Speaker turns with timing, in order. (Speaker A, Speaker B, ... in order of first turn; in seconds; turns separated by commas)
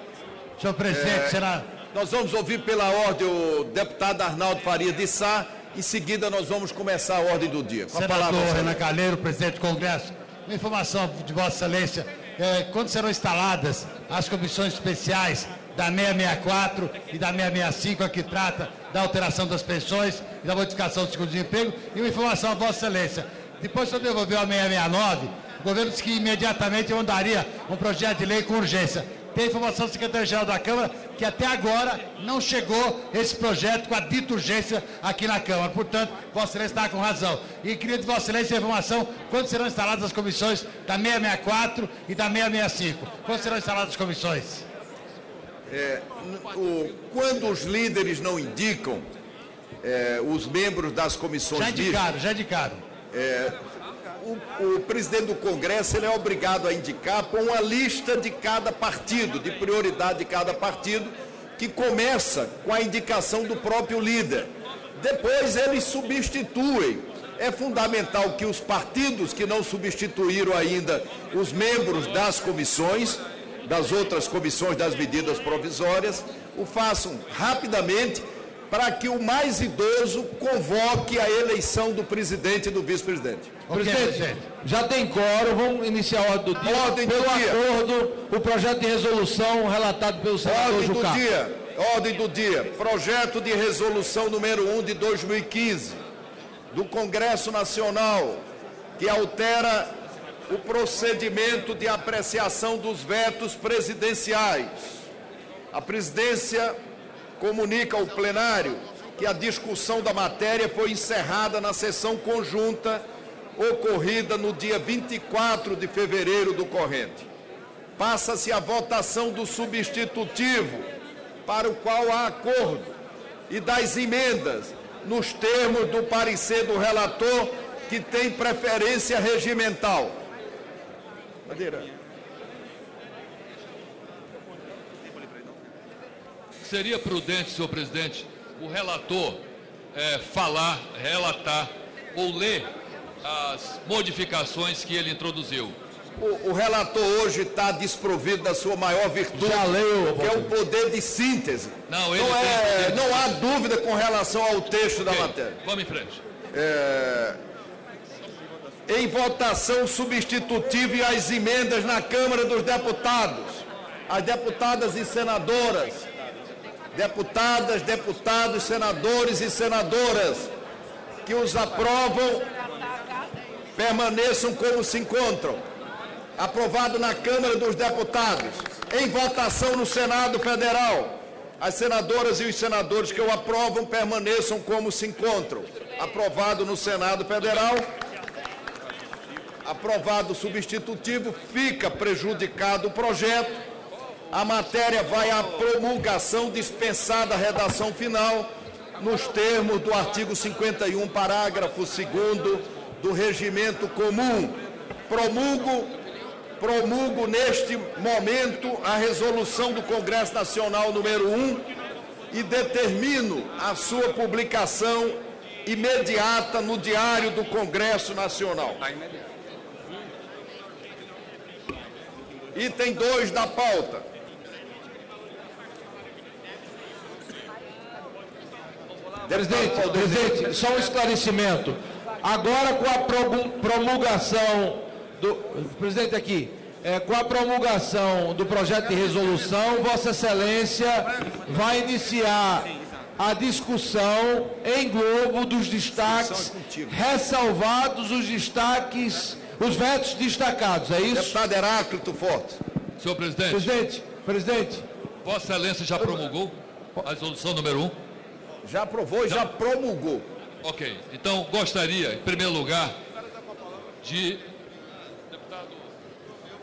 Speaker A: 0.6-1.7, Speaker B: 0.9-1.4, Speaker B: 1.9-8.8, Speaker A: 7.9-44.6, Speaker B: 45.7-49.1, Speaker B: 49.8-52.0, Speaker A: 51.5-52.8, Speaker B: 53.1-53.6, Speaker B: 54.2-83.5, Speaker A: 83.7-84.4, Speaker C: 83.7-91.2, Speaker B: 86.6-87.6, Speaker B: 90.4-96.0, Speaker B: 96.7-98.4, Speaker B: 99.0-99.9, Speaker B: 100.5-105.0, Speaker B: 105.7-106.8, Speaker B: 107.4-113.0, Speaker B: 113.6-117.3, Speaker B: 118.0-120.9, Speaker B: 121.5-122.9, Speaker B: 123.5-130.2, Speaker B: 131.5-131.9, Speaker D: 136.6-139.4, Speaker D: 139.9-142.7, Speaker D: 143.2-145.8, Speaker B: 146.2-155.6, Speaker C: 149.3-150.5, Speaker D: 151.9-153.4, Speaker D: 155.0-156.2, Speaker B: 156.5-157.4, Speaker B: 158.9-166.1, Speaker B: 166.9-170.5, Speaker B: 171.3-172.5, Speaker B: 173.8-175.7, Speaker B: 176.4-187.8, Speaker B: 189.7-193.6, Speaker B: 194.3-205.9, Speaker B: 206.6-211.7, Speaker B: 212.3-218.8, Speaker B: 222.5-224.1, Speaker B: 229.3-230.6, Speaker C: 229.3-251.4, Speaker B: 246.0-247.0, Speaker B: 251.1-252.6, Speaker D: 253.0-253.7, Speaker C: 253.5-254.9, Speaker D: 255.2-257.9, Speaker B: 258.6-260.2, Speaker D: 260.6-263.0, Speaker D: 264.0-264.4